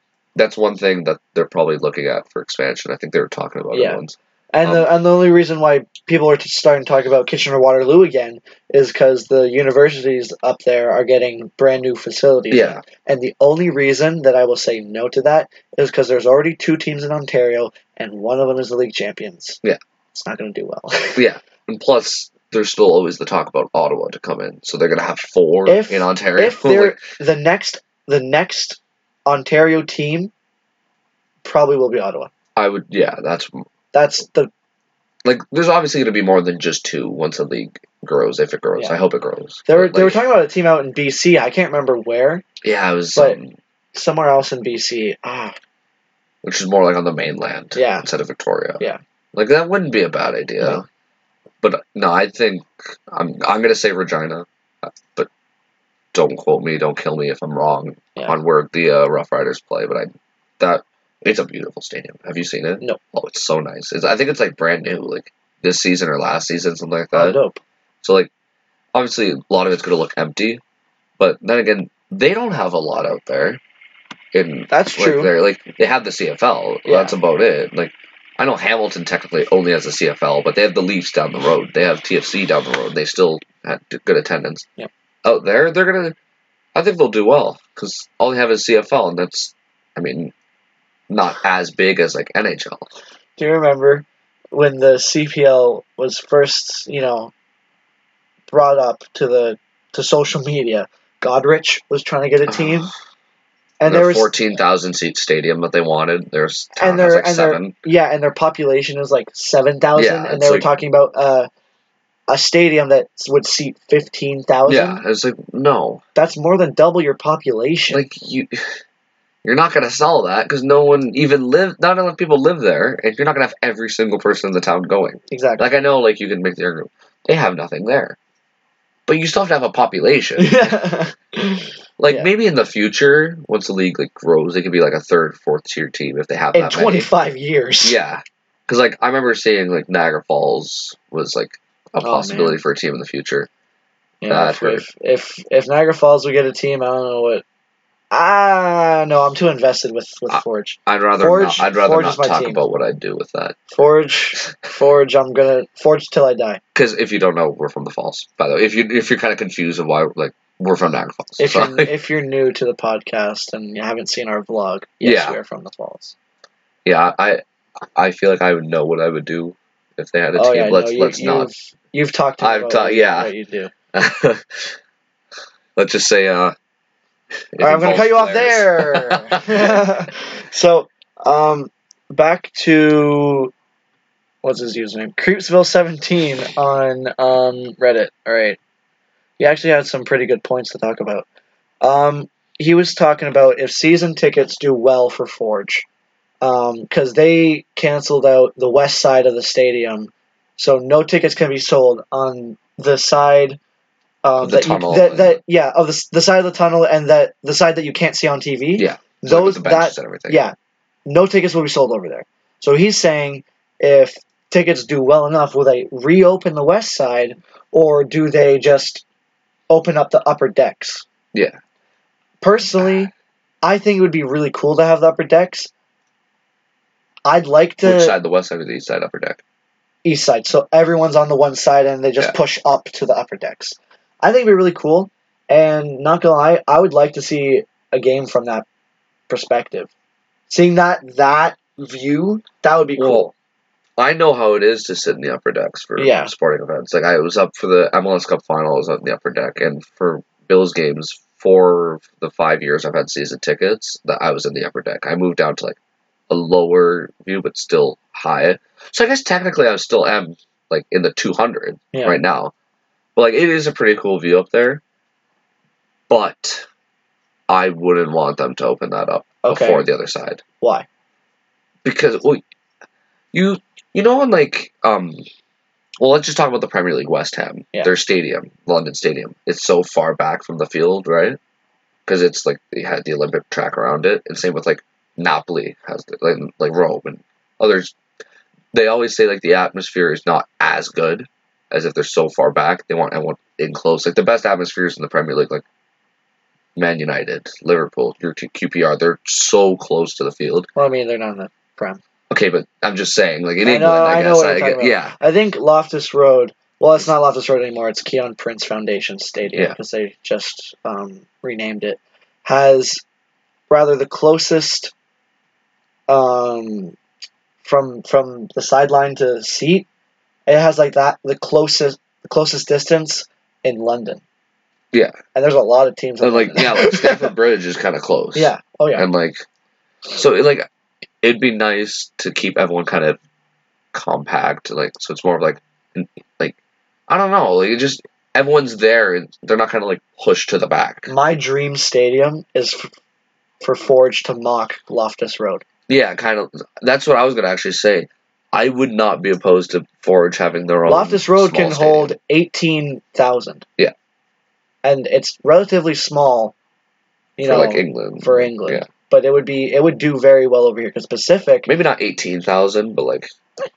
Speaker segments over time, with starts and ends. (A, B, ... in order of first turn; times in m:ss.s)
0:00.4-0:04.9 A
0:03.7-0:04.0 B
0:04.5-0:19.6 B
0:12.5-0:12.8 A
0:20.1-0:21.2 B
0:21.2-0:27.0 A
0:25.6-0:30.3 B
0:31.4-0:32.3 B
0:32.6-0:33.6 A
0:33.9-0:34.5 B
0:35.2-0:40.2 A
0:39.6-0:42.4 B
0:42.6-0:43.5 A
0:43.9-0:45.6 B
0:46.4-0:48.8 A
0:47.8-0:48.1 B
0:49.3-0:50.8 A
0:51.6-0:55.3 A
0:56.1-1:07.4 A
1:07.1-1:07.6 B
1:08.0-1:08.3 A
1:08.9-1:10.6 A
1:11.2-1:13.6 A
1:14.3-1:24.6 A
1:14.7-1:15.3 B
1:16.9-1:17.2 B
1:25.2-1:26.1 A
1:26.8-1:30.3 A
1:31.1-1:32.9 A
1:33.4-1:37.3 B
1:38.5-1:42.9 B
1:42.5-1:42.9 A
1:43.8-1:44.3 B
1:43.8-1:47.8 A
1:46.8-1:51.5 B
1:50.0-1:50.7 A
1:52.3-1:55.0 B
1:54.6-1:56.0 A
1:56.1-1:58.0 B
1:57.9-1:58.7 A
1:59.4-2:08.2 A
2:05.3-2:05.7 B
2:09.1-2:10.8 A
2:10.4-2:12.3 B
2:12.0-2:17.1 A
2:16.5-2:18.0 B
2:17.8-2:23.5 A
2:22.0-2:22.6 B
2:24.2-2:27.4 B
2:24.3-2:24.8 A
2:28.1-2:32.6 B
2:30.3-2:33.6 A
2:33.7-2:36.6 B
2:36.8-2:41.9 A
2:41.4-2:46.1 B
2:45.0-2:45.4 A
2:46.8-2:51.5 A
2:50.4-2:53.7 B
2:52.4-2:53.3 A
2:53.9-2:54.7 A
2:55.8-2:56.5 A
2:57.5-2:59.9 A
2:57.6-3:03.5 B
3:04.4-3:08.6 B
3:09.4-3:11.3 B
3:11.8-3:15.9 B
3:16.4-3:23.6 B
3:24.2-3:30.6 B
3:24.4-3:25.4 A
3:28.8-3:30.4 A
3:31.1-3:39.0 B
3:39.7-3:41.1 B
3:42.4-3:43.1 B
3:43.6-3:45.7 B
3:47.3-3:48.2 B
3:47.8-3:49.4 A
3:50.0-3:58.6 B
3:59.3-3:59.9 B
4:00.5-4:03.3 B
4:03.0-4:03.3 A
4:04.0-4:15.8 A
4:06.0-4:06.3 B
4:16.3-4:22.5 A
4:21.9-4:22.2 B
4:23.2-4:24.8 A
4:26.1-4:26.6 A
4:27.5-4:30.4 A
4:29.4-4:29.9 B
4:30.6-4:30.9 B
4:31.8-4:32.4 A
4:33.3-4:35.2 A
4:36.0-4:41.4 A
4:42.1-4:48.0 A
4:48.7-4:55.6 A
4:56.8-5:00.7 A
5:00.8-5:02.0 B
5:02.3-5:05.2 A
5:03.6-5:13.0 B
5:13.7-5:14.9 B
5:16.1-5:17.0 B
5:17.6-5:19.9 B
5:20.5-5:24.2 B
5:25.3-5:27.4 B
5:26.2-5:29.4 A
5:28.3-5:29.1 B
5:30.1-5:30.7 A
5:31.2-5:33.2 A
5:33.9-5:36.6 A
5:37.1-5:41.1 A
5:41.1-5:42.9 B
5:43.6-5:45.6 B
5:45.9-5:52.1 A
5:50.9-5:53.6 B
5:54.8-5:56.5 B
5:57.4-6:01.7 B
5:57.4-5:58.9 A
6:01.6-6:03.3 A